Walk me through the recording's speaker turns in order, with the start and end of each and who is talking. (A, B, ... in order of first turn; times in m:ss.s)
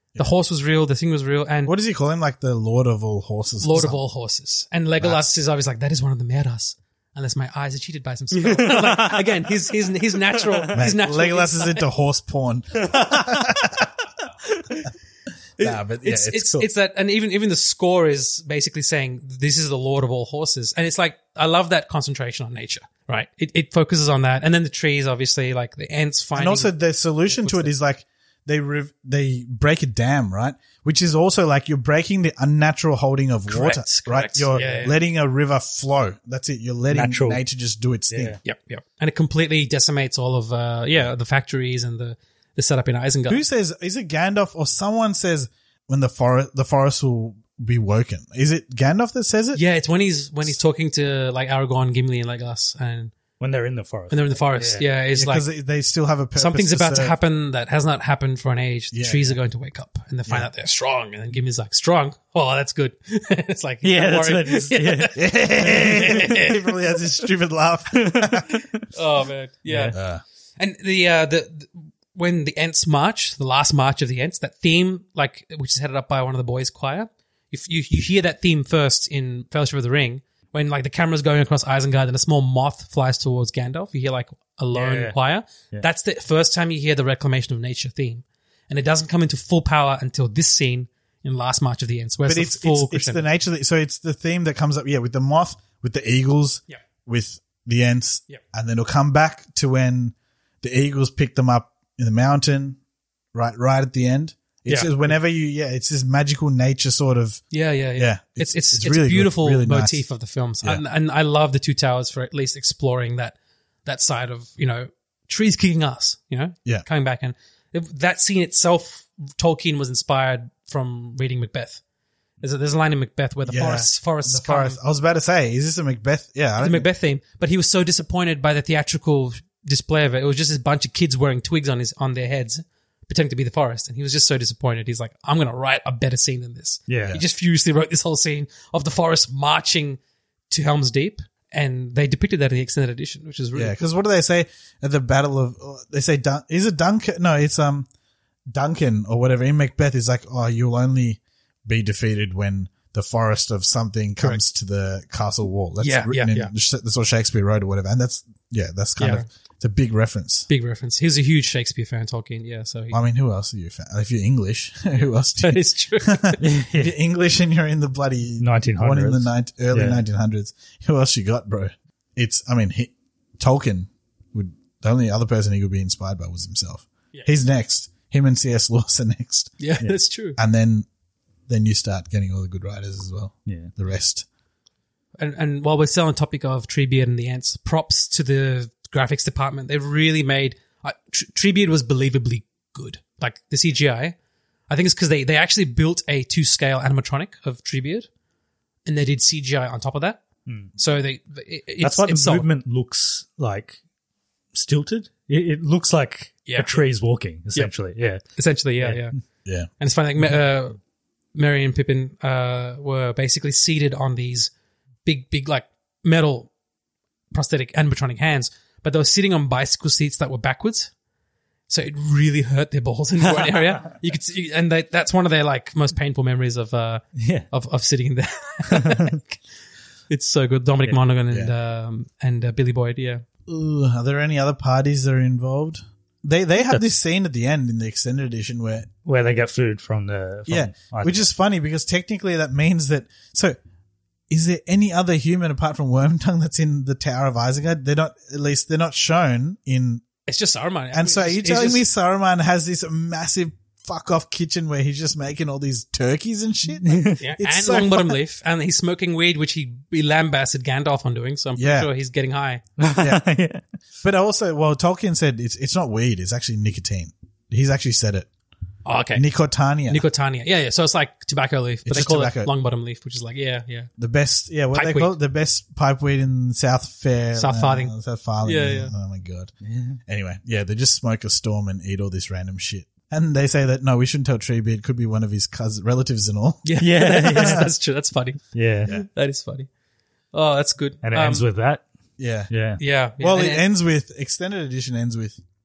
0:00.2-0:01.7 A
0:01.6-0:04.0 B
0:03.6-0:11.8 A
0:05.0-0:05.3 B
0:08.4-0:09.5 C
0:10.2-0:10.8 C
0:10.7-0:13.9 B
0:12.8-0:13.5 C
0:15.6-0:16.7 B
0:15.6-0:26.7 A
0:26.3-0:38.4 B
0:27.3-0:27.7 A
0:33.5-0:35.0 A
0:34.5-0:34.9 C
0:36.9-0:37.4 C
0:38.1-0:38.4 C
0:38.4-0:43.4 A
0:43.3-0:49.6 B
0:49.5-0:53.1 A
0:53.4-0:54.9 C
0:54.1-0:55.4 A
0:55.1-0:57.2 B
0:56.4-1:06.6 A
0:58.9-0:59.4 B
1:03.8-1:05.2 C
1:05.1-1:08.5 B
1:08.0-1:08.8 C
1:08.9-1:10.0 A
1:09.6-1:10.0 C
1:09.9-1:10.2 B
1:10.6-1:33.2 A
1:24.7-1:25.2 C
1:32.2-1:42.8 B
1:43.3-1:47.4 B
1:44.7-1:45.0 A
1:47.5-1:53.3 A
1:47.9-1:50.0 B
1:53.8-2:01.8 A
2:02.4-2:04.8 A
2:03.4-2:06.9 B
2:06.6-2:20.0 A
2:16.9-2:17.2 C
2:20.5-2:23.7 A
2:23.5-2:27.9 B
2:28.5-2:40.5 B
2:35.8-2:36.5 A
2:39.0-2:39.2 A
2:40.5-2:43.0 A
2:42.9-2:59.6 B
2:45.4-2:46.4 A
2:46.4-2:46.9 C
2:48.4-2:50.0 C
2:59.6-3:00.4 A
3:00.4-3:00.8 B
3:01.5-3:04.2 B
3:05.2-3:14.1 A
3:14.7-3:18.1 A
3:18.8-3:20.2 A
3:20.4-3:20.7 C
3:20.8-3:22.5 A
3:21.8-3:23.8 C
3:24.5-3:28.2 C
3:26.5-3:26.8 A
3:28.3-3:29.1 A
3:28.8-3:29.1 C
3:29.4-3:29.7 B
3:29.8-3:30.8 A
3:31.3-3:34.5 A
3:35.0-3:36.5 A
3:37.3-3:40.9 A
3:41.7-3:49.4 A
3:43.2-3:43.9 C
3:47.2-3:47.5 C
3:48.7-3:49.2 C
3:50.1-3:53.2 A
3:53.5-3:58.9 B
3:59.0-4:01.3 C
4:00.5-4:03.6 B
4:04.3-4:10.0 B
4:10.3-4:11.8 A
4:10.9-4:18.2 B
4:16.8-4:17.2 C
4:17.2-4:22.6 A
4:21.6-4:21.9 B
4:22.8-4:23.6 C
4:23.0-4:23.2 B
4:24.0-4:28.3 B
4:28.8-4:29.2 A
4:29.1-4:30.0 B
4:29.9-4:33.9 A
4:31.8-4:32.5 B
4:34.0-4:39.5 B
4:34.7-4:35.1 A
4:37.4-4:38.9 A
4:39.6-4:40.0 C
4:40.0-4:46.7 B
4:46.6-4:49.7 A
4:46.8-4:47.7 C
4:47.2-4:47.6 B
4:48.5-4:48.9 C
4:50.3-4:51.4 A
4:51.0-4:51.8 C
4:52.2-4:52.5 B
4:52.5-4:52.8 C
4:52.8-4:53.6 A
4:53.2-4:55.4 B